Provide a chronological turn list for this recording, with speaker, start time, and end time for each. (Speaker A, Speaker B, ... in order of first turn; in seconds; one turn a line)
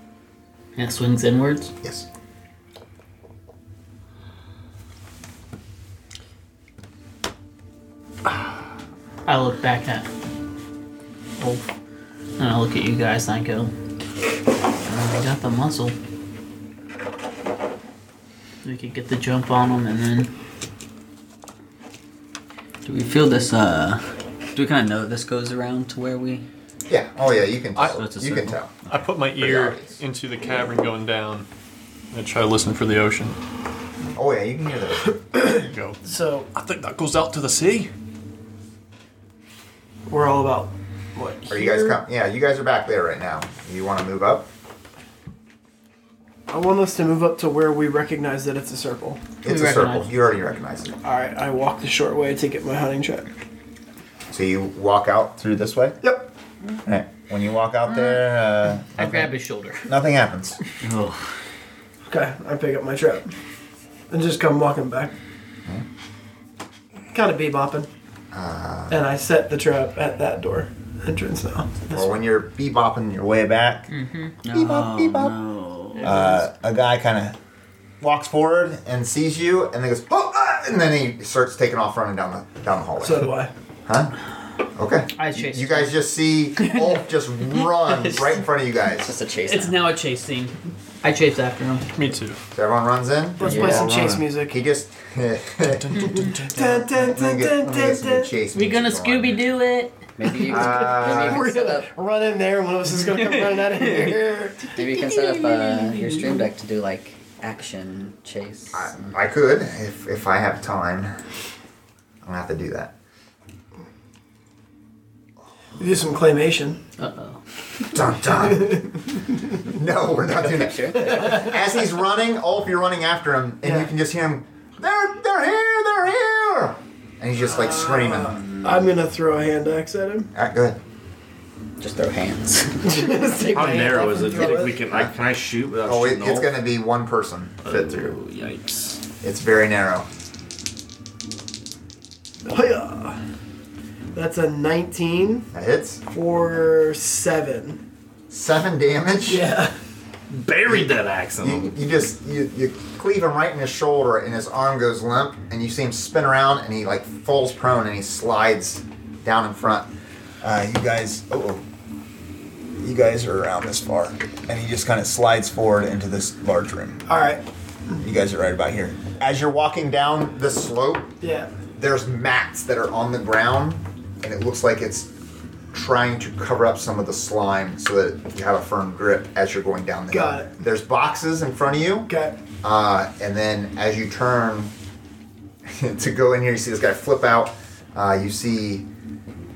Speaker A: 0.8-1.7
Speaker A: 9.2-10.1
Speaker A: 11.4-11.7
Speaker A: 12.4-13.7
Speaker A: 14.8-16.0
Speaker A: 18.6-20.3
Speaker B: 22.8-26.4
Speaker C: 26.9-30.0
Speaker D: 27.8-28.1
Speaker B: 27.8-29.1
Speaker D: 28.9-31.4
Speaker D: 32.1-33.4
Speaker C: 34.1-35.2
Speaker D: 35.4-37.9
Speaker E: 36.0-36.5
Speaker E: 40.1-42.0
Speaker C: 41.5-44.5
Speaker E: 46.5-49.2
Speaker C: 49.4-50.9
Speaker A: 49.4-50.1
Speaker E: 51.0-53.3
Speaker C: 54.3-56.0
Speaker E: 56.0-56.3
Speaker C: 56.8-60.6
Speaker A: 57.9-58.2
Speaker A: 58.9-59.9
Speaker B: 60.8-61.2
Speaker E: 62.0-63.3
Speaker E: 64.1-65.1
Speaker E: 67.1-67.9
Speaker C: 68.3-69.0
Speaker E: 68.9-72.1
Speaker C: 71.9-73.9
Speaker A: 73.9-74.4
Speaker B: 74.4-76.4
Speaker C: 74.5-75.3
Speaker C: 76.0-77.4
Speaker C: 78.0-83.3
Speaker E: 83.0-83.5
Speaker C: 83.8-84.1
Speaker C: 84.7-89.1
Speaker A: 85.2-86.0
Speaker B: 87.6-89.8
Speaker A: 89.5-91.9
Speaker D: 91.9-92.4
Speaker C: 92.5-93.8
Speaker E: 93.4-94.5
Speaker B: 93.4-93.9
Speaker F: 93.6-94.3
Speaker C: 94.5-96.2
Speaker D: 95.6-96.9
Speaker E: 96.5-98.3
Speaker C: 96.9-99.4
Speaker A: 98.5-100.0
Speaker B: 100.2-101.9
Speaker E: 100.4-104.7
Speaker C: 100.4-101.4
Speaker B: 104.7-109.1
Speaker A: 104.8-106.5
Speaker C: 108.7-111.1
Speaker C: 112.2-112.9
Speaker E: 115.8-116.8
Speaker A: 117.0-117.4
Speaker C: 117.9-118.9
Speaker E: 118.3-118.9
Speaker C: 119.6-128.4
Speaker B: 120.4-121.5
Speaker E: 121.0-121.3
Speaker E: 123.6-123.9
Speaker E: 127.4-130.3
Speaker B: 128.3-128.9
Speaker C: 130.3-130.8
Speaker B: 131.8-133.2
Speaker E: 132.8-134.8
Speaker F: 133.5-136.5
Speaker C: 134.8-135.1
Speaker C: 135.8-138.2
Speaker F: 137.6-139.0
Speaker C: 139.2-140.1
Speaker E: 142.5-143.2
Speaker E: 144.1-145.5
Speaker C: 145.5-146.0
Speaker E: 146.1-147.8
Speaker C: 148.3-149.4
Speaker E: 149.3-149.7
Speaker F: 150.3-151.7
Speaker C: 150.7-159.9
Speaker C: 160.4-161.6
Speaker C: 162.8-167.1
Speaker E: 167.1-168.0
Speaker C: 168.0-171.1
Speaker E: 171.2-171.5
Speaker C: 171.7-175.1
Speaker C: 175.7-182.1
Speaker E: 180.1-180.5
Speaker E: 182.1-182.4
Speaker C: 182.6-184.7
Speaker C: 185.6-188.8